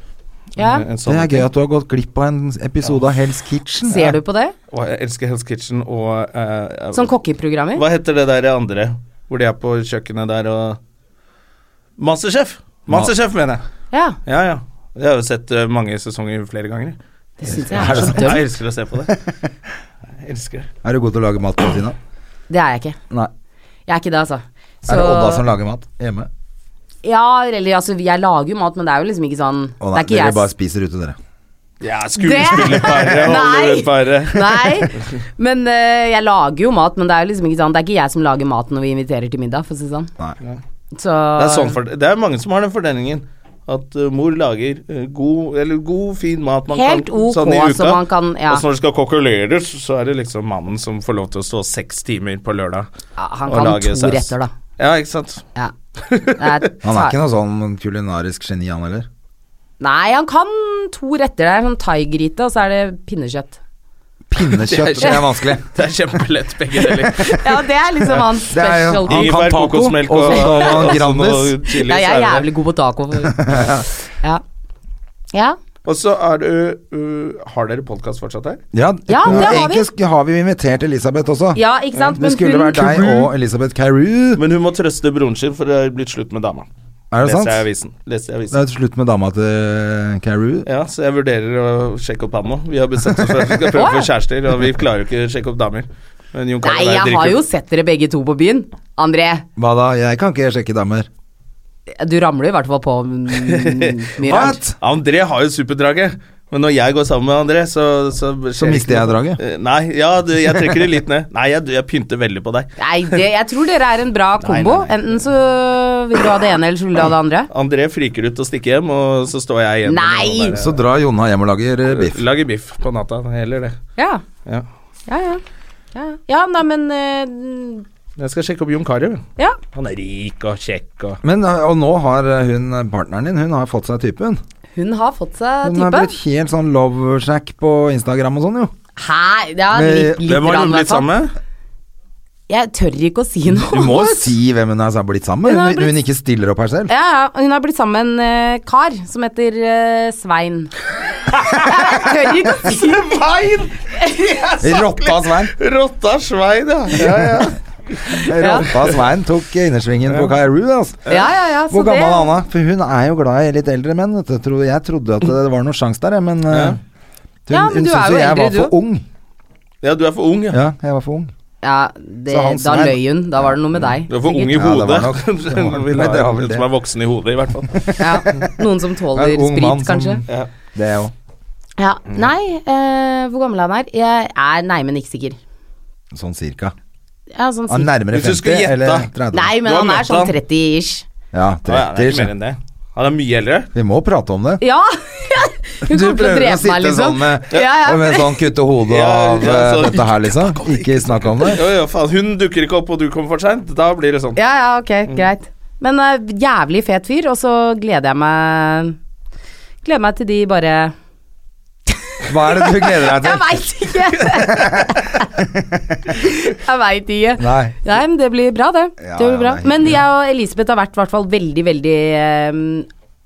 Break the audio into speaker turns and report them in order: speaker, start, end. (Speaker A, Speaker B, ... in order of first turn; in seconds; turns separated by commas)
Speaker A: 0.6-0.9, Speaker B: 0.6-1.5, Speaker C: 1.1-4.2, Speaker A: 3.9-4.5, Speaker B: 4.7-7.1, Speaker A: 6.9-7.8, Speaker B: 7.8-10.8, Speaker B: 12.0-13.6, Speaker A: 13.9-14.2, Speaker B: 14.2-17.0, Speaker A: 17.4-18.5, Speaker B: 17.5-19.2, Speaker C: 17.5-18.4, Speaker B: 20.2-20.7, Speaker C: 20.8-22.0, Speaker A: 22.5-23.0, Speaker A: 23.9-25.5, Speaker C: 24.9-26.3, Speaker A: 27.0-30.5, Speaker C: 29.8-31.2, Speaker B: 31.8-35.0, Speaker A: 32.2-40.1, Speaker A: 40.9-41.8, Speaker B: 41.4-52.9, Speaker A: 46.7-48.6, Speaker A: 53.2-54.5, Speaker B: 53.5-55.4, Speaker B: 56.0-56.7, Speaker A: 56.4-57.2, Speaker C: 56.8-59.1, Speaker A: 59.8-63.6, Speaker C: 64.3-65.6, Speaker B: 64.6-67.4, Speaker A: 67.0-69.4, Speaker C: 68.1-71.6, Speaker B: 69.1-72.5, Speaker A: 70.3-71.0, Speaker A: 71.7-74.4, Speaker C: 73.3-73.9, Speaker A: 75.3-75.6, Speaker B: 75.8-78.6, Speaker C: 78.7-84.4, Speaker A: 79.1-79.9, Speaker B: 79.3-79.6, Speaker A: 81.5-83.3, Speaker B: 84.4-86.7, Speaker C: 87.1-87.6, Speaker B: 87.2-88.6, Speaker C: 88.5-90.7, Speaker B: 90.7-97.4, Speaker A: 93.7-94.1, Speaker A: 96.6-99.5, Speaker C: 99.6-101.1, Speaker A: 101.9-104.6, Speaker B: 103.4-113.1, Speaker C: 104.2-104.8, Speaker C: 108.6-109.4, Speaker A: 112.8-117.5, Speaker B: 114.4-115.2, Speaker B: 117.5-120.8, Speaker A: 119.9-120.6, Speaker C: 120.5-122.2, Speaker B: 121.9-123.8, Speaker A: 124.0-124.2, Speaker A: 125.1-125.4, Speaker A: 125.9-127.8, Speaker B: 128.2-131.2, Speaker C: 131.2-134.4, Speaker A: 134.8-136.1, Speaker C: 135.6-138.7, Speaker A: 139.0-141.1, Speaker C: 139.7-140.2, Speaker B: 140.2-141.3, Speaker A: 142.5-144.3, Speaker C: 143.5-146.9, Speaker A: 145.4-145.9, Speaker A: 146.9-150.7, Speaker B: 151.3-152.0, Speaker A: 151.5-153.2, Speaker B: 152.6-158.7, Speaker A: 154.0-154.5, Speaker C: 154.6-155.5, Speaker C: 157.0-157.5, Speaker C: 158.1-166.8, Speaker A: 158.2-158.7, Speaker A: 161.1-162.3, Speaker B: 166.5-166.8, Speaker C: 167.5-169.1, Speaker A: 167.5-168.8, Speaker B: 169.8-170.6, Speaker C: 170.5-171.3, Speaker A: 171.6-174.6, Speaker C: 172.3-173.8, Speaker B: 174.1-177.9, Speaker C: 174.5-176.7, Speaker C: 177.7-178.5, Speaker A: 178.0-180.2, Speaker C: 179.1-181.1, Speaker A: 181.8-185.4, Speaker C: 186.1-186.8, Speaker A: 187.3-187.9, Speaker C: 187.7-189.6, Speaker B: 188.1-190.4, Speaker A: 189.3-191.1, Speaker C: 191.3-192.3, Speaker B: 191.7-193.7, Speaker C: 193.7-194.6, Speaker A: 194.6-198.4, Speaker C: 195.8-201.6, Speaker B: 198.9-204.4, Speaker A: 204.4-209.0, Speaker A: 209.8-210.9, Speaker A: 211.9-215.3, Speaker C: 212.3-213.6, Speaker C: 214.2-215.6, Speaker A: 216.1-222.9, Speaker C: 217.4-217.8, Speaker C: 219.0-220.0